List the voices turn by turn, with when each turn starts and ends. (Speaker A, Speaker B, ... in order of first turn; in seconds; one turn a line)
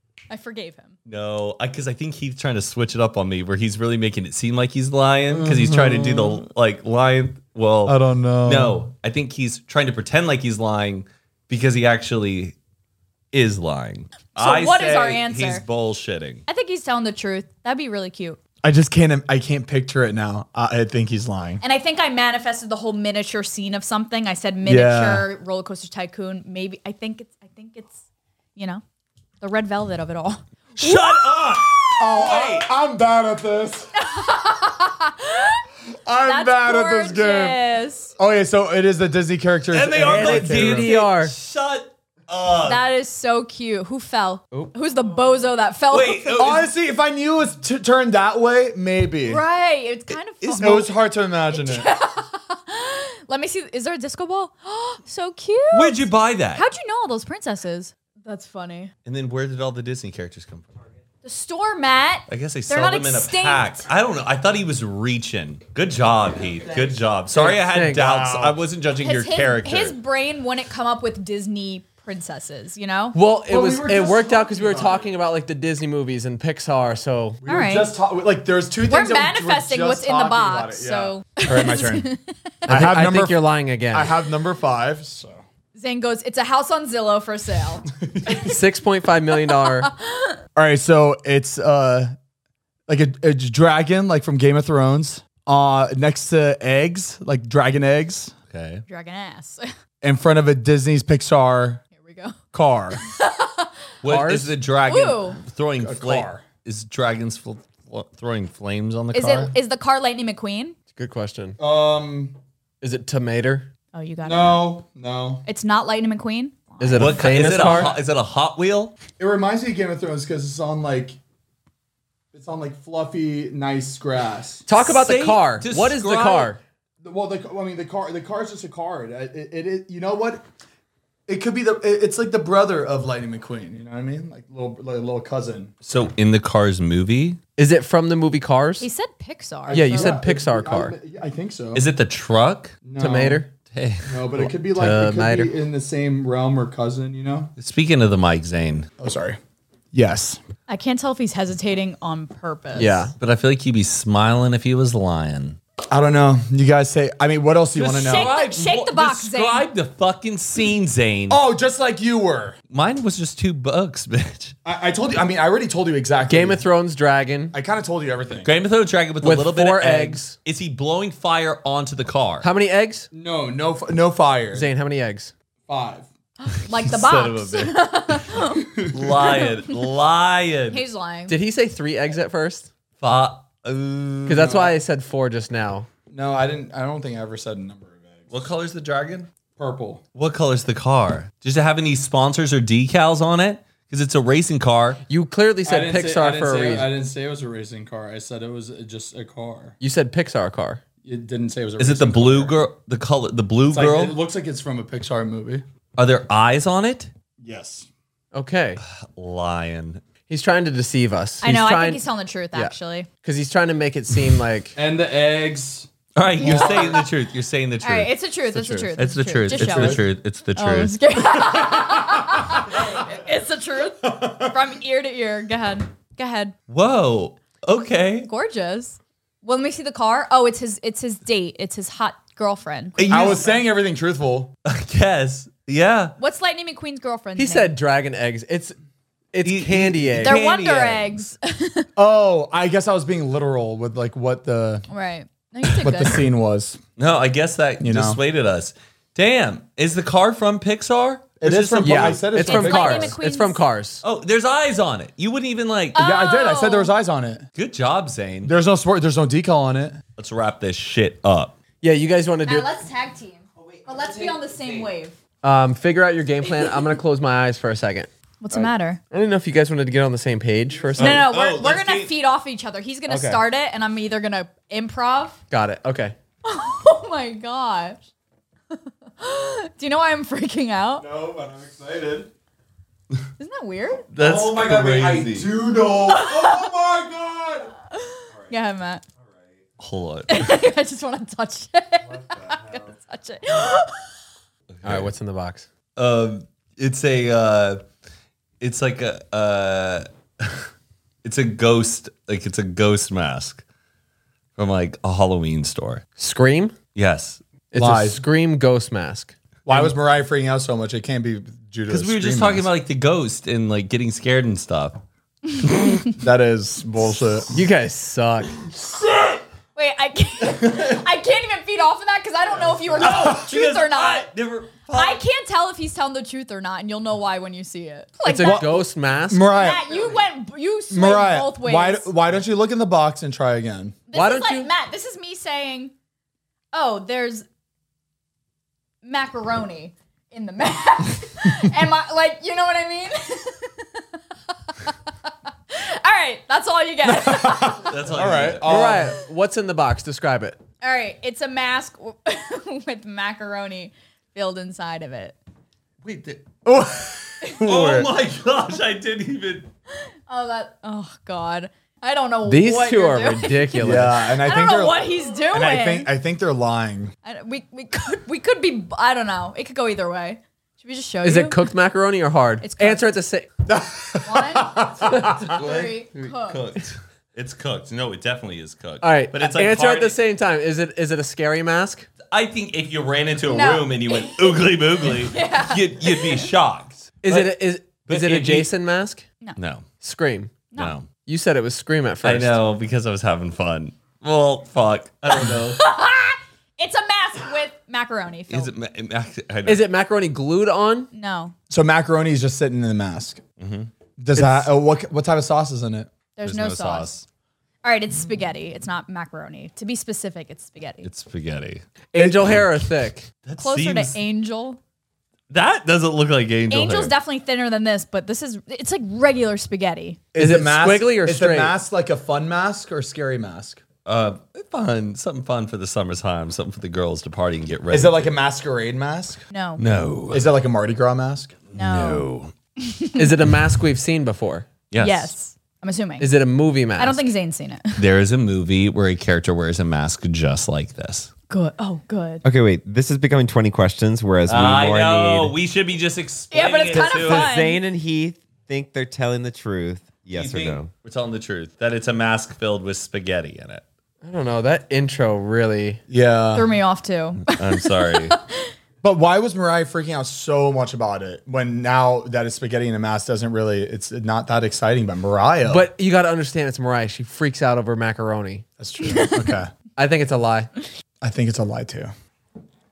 Speaker A: 0.3-0.9
Speaker B: 1.1-12.5
Speaker C: 5.3-6.4
Speaker C: 7.8-8.8
Speaker B: 13.3-16.4
Speaker A: 14.4-15.6
Speaker A: 16.5-18.4
Speaker C: 18.6-21.6
Speaker A: 21.6-28.0
Speaker C: 24.6-25.3
Speaker A: 28.6-28.8
Speaker A: 29.4-31.6
Speaker B: 30.8-32.7
Speaker C: 32.0-33.9
Speaker A: 34.0-35.6
Speaker C: 36.0-37.6
Speaker A: 36.2-38.1
Speaker C: 38.2-40.9
Speaker B: 39.7-42.8
Speaker D: 40.0-41.3
Speaker A: 42.6-46.5
Speaker B: 45.9-46.7
Speaker C: 46.3-49.4
Speaker A: 49.2-50.9
Speaker B: 50.4-50.8
Speaker C: 50.6-51.9
Speaker A: 51.5-56.0
Speaker B: 55.7-56.6
Speaker A: 56.5-58.9
Speaker B: 59.0-60.8
Speaker A: 61.2-63.9
Speaker B: 62.3-70.0
Speaker D: 67.3-68.3
Speaker C: 68.1-68.5
Speaker A: 69.0-73.2
Speaker D: 73.1-77.4
Speaker C: 73.5-75.1
Speaker C: 77.4-82.1
Speaker A: 77.5-77.9
Speaker A: 78.9-82.3
Speaker C: 82.6-85.4
Speaker D: 82.7-84.2
Speaker A: 85.7-88.6
Speaker D: 88.3-89.9
Speaker A: 89.5-90.3
Speaker C: 90.5-92.1
Speaker C: 92.9-98.3
Speaker B: 98.5-98.8
Speaker A: 98.9-99.6
Speaker C: 100.0-101.8
Speaker A: 101.9-102.4
Speaker C: 102.5-103.0
Speaker A: 103.0-103.7
Speaker B: 104.0-109.5
Speaker D: 104.0-104.5
Speaker A: 104.8-105.4
Speaker C: 105.8-106.4
Speaker A: 109.1-110.8
Speaker D: 110.9-111.6
Speaker C: 111.6-112.3
Speaker D: 112.8-113.7
Speaker A: 113.9-114.6
Speaker C: 114.2-115.4
Speaker A: 115.5-117.4
Speaker D: 116.8-117.9
Speaker B: 117.0-118.9
Speaker C: 119.2-121.2
Speaker C: 122.3-124.7
Speaker D: 124.7-126.6
Speaker B: 124.8-126.5
Speaker C: 127.0-130.4
Speaker C: 131.3-135.7
Speaker B: 135.8-137.4
Speaker D: 137.6-138.9
Speaker A: 138.8-140.2
Speaker C: 139.7-141.8
Speaker D: 139.7-140.9
Speaker B: 141.7-142.8
Speaker C: 142.8-143.4
Speaker D: 143.0-143.5
Speaker B: 143.7-144.2
Speaker C: 144.1-147.5
Speaker D: 144.4-145.5
Speaker B: 147.6-148.9
Speaker C: 149.0-149.4
Speaker C: 149.9-150.4
Speaker A: 150.7-153.1
Speaker D: 152.7-153.1
Speaker B: 153.2-155.6
Speaker C: 155.9-158.3
Speaker B: 157.8-161.4
Speaker A: 158.1-159.6
Speaker C: 161.3-162.6
Speaker B: 162.7-164.6
Speaker C: 164.6-166.6
Speaker D: 166.3-167.5
Speaker C: 167.5-168.5
Speaker B: 168.4-172.5
Speaker D: 169.2-170.3
Speaker D: 172.4-173.1
Speaker C: 173.1-174.7
Speaker D: 174.5-175.3
Speaker C: 175.7-176.1
Speaker A: 176.4-179.8
Speaker B: 176.8-178.2
Speaker B: 178.9-180.8
Speaker A: 180.7-181.4
Speaker D: 181.3-182.7
Speaker B: 183.0-184.7
Speaker D: 184.2-185.9
Speaker C: 186.1-188.3
Speaker B: 188.3-189.3
Speaker C: 189.6-190.0
Speaker B: 190.1-195.0
Speaker D: 195.1-196.9
Speaker C: 195.6-199.7
Speaker D: 199.8-200.8
Speaker C: 201.0-202.6
Speaker B: 201.8-204.2
Speaker C: 203.7-205.6
Speaker B: 206.0-207.1
Speaker C: 207.4-207.9
Speaker D: 208.3-208.8
Speaker B: 209.2-210.0
Speaker D: 210.3-214.8
Speaker A: 211.4-213.1
Speaker C: 214.8-215.9
Speaker B: 216.2-218.1
Speaker A: 216.4-217.0
Speaker A: 217.8-220.0
Speaker D: 218.5-218.9
Speaker B: 218.9-221.0
Speaker C: 219.5-220.0
Speaker A: 220.5-226.5
Speaker C: 224.1-224.5
Speaker B: 226.7-228.3
Speaker A: 228.2-233.2
Speaker B: 233.0-233.5
Speaker C: 233.1-234.5
Speaker B: 234.7-236.1
Speaker A: 236.2-237.7
Speaker D: 237.3-238.8
Speaker D: 239.3-240.4
Speaker B: 239.4-241.3
Speaker A: 240.2-241.9
Speaker C: 242.0-244.8
Speaker A: 244.9-246.2
Speaker C: 245.7-246.8
Speaker B: 247.0-252.3
Speaker C: 247.8-248.2
Speaker C: 251.4-253.1
Speaker D: 251.8-254.0
Speaker A: 252.4-253.6
Speaker B: 254.0-256.0
Speaker A: 255.9-256.9
Speaker C: 255.9-257.4
Speaker B: 257.6-258.5
Speaker C: 258.4-260.0
Speaker B: 260.2-261.6
Speaker D: 261.8-262.7
Speaker A: 262.4-265.2
Speaker D: 265.4-271.2
Speaker A: 268.4-269.0
Speaker B: 271.0-272.1
Speaker A: 271.0-275.4
Speaker D: 273.1-273.4
Speaker D: 275.5-276.1
Speaker A: 276.4-278.0
Speaker A: 278.7-281.1
Speaker C: 281.0-282.3
Speaker A: 283.4-284.1
Speaker B: 284.1-285.5
Speaker C: 284.2-287.7
Speaker A: 286.1-286.7
Speaker A: 287.9-289.0
Speaker B: 289.8-290.6
Speaker A: 290.3-294.0
Speaker C: 292.1-292.9
Speaker B: 294.7-295.1
Speaker D: 294.8-295.7
Speaker B: 295.9-297.8
Speaker B: 298.6-300.6
Speaker B: 301.2-303.6
Speaker B: 304.6-306.0
Speaker D: 306.2-306.8
Speaker B: 306.9-307.4
Speaker D: 307.7-309.3
Speaker C: 307.7-308.2
Speaker C: 309.6-312.7
Speaker B: 311.9-315.0
Speaker C: 316.1-317.5
Speaker D: 317.5-318.7
Speaker B: 319.1-319.4
Speaker A: 319.8-324.3
Speaker B: 322.9-325.2
Speaker A: 324.9-328.9
Speaker D: 328.2-329.4
Speaker C: 328.4-330.1
Speaker A: 329.5-332.1
Speaker C: 330.9-334.0
Speaker A: 334.1-335.9
Speaker D: 334.1-334.7
Speaker A: 336.7-337.4
Speaker A: 339.0-344.0
Speaker A: 344.7-344.9
Speaker A: 345.7-347.9
Speaker C: 347.0-349.1
Speaker B: 347.8-349.0
Speaker D: 348.6-350.6
Speaker A: 350.8-355.4
Speaker B: 356.0-356.6
Speaker C: 356.6-358.1
Speaker B: 357.5-359.7
Speaker A: 360.3-366.1
Speaker D: 362.4-364.2
Speaker C: 363.8-367.1
Speaker A: 367.2-371.7
Speaker D: 371.2-373.5
Speaker A: 372.6-373.0
Speaker C: 373.6-375.5
Speaker A: 374.2-376.7
Speaker B: 375.5-380.2
Speaker D: 379.0-382.1
Speaker B: 382.3-387.5
Speaker A: 383.4-386.5
Speaker D: 387.2-389.2
Speaker B: 388.1-388.7
Speaker B: 389.6-389.8
Speaker D: 390.0-390.5
Speaker B: 390.7-391.1
Speaker D: 391.2-392.6
Speaker B: 392.2-395.8
Speaker A: 395.3-398.7
Speaker B: 398.5-399.8
Speaker D: 399.6-401.1
Speaker A: 401.1-401.5
Speaker C: 401.7-403.4
Speaker B: 403.6-403.9
Speaker C: 404.2-406.1
Speaker D: 404.4-404.7
Speaker A: 406.4-407.1
Speaker B: 406.4-407.2
Speaker A: 407.8-411.1
Speaker B: 411.0-411.8
Speaker D: 412.1-413.3
Speaker B: 412.4-412.7
Speaker B: 413.4-414.2
Speaker A: 413.6-414.8
Speaker B: 415.5-417.1
Speaker A: 416.7-420.3
Speaker C: 420.3-423.8
Speaker D: 420.4-421.8
Speaker B: 424.1-428.3
Speaker C: 427.9-429.4
Speaker A: 429.5-429.8
Speaker B: 429.8-430.5
Speaker C: 430.3-431.6
Speaker B: 431.7-432.5
Speaker A: 431.7-432.2
Speaker A: 432.8-433.3
Speaker D: 433.2-434.7
Speaker B: 434.9-435.3
Speaker A: 435.0-436.3
Speaker D: 436.2-437.2
Speaker A: 436.9-438.0
Speaker B: 437.9-441.3
Speaker A: 441.5-442.4
Speaker E: 442.4-445.5
Speaker B: 444.4-447.5
Speaker A: 446.5-447.8
Speaker E: 447.2-450.9
Speaker B: 450.3-453.8
Speaker D: 454.2-456.0
Speaker C: 456.1-456.7
Speaker A: 456.5-458.7
Speaker B: 457.5-458.4
Speaker C: 459.0-465.9
Speaker D: 465.7-468.6
Speaker C: 468.8-469.7
Speaker A: 469.1-469.5
Speaker D: 470.0-470.7
Speaker C: 471.2-472.1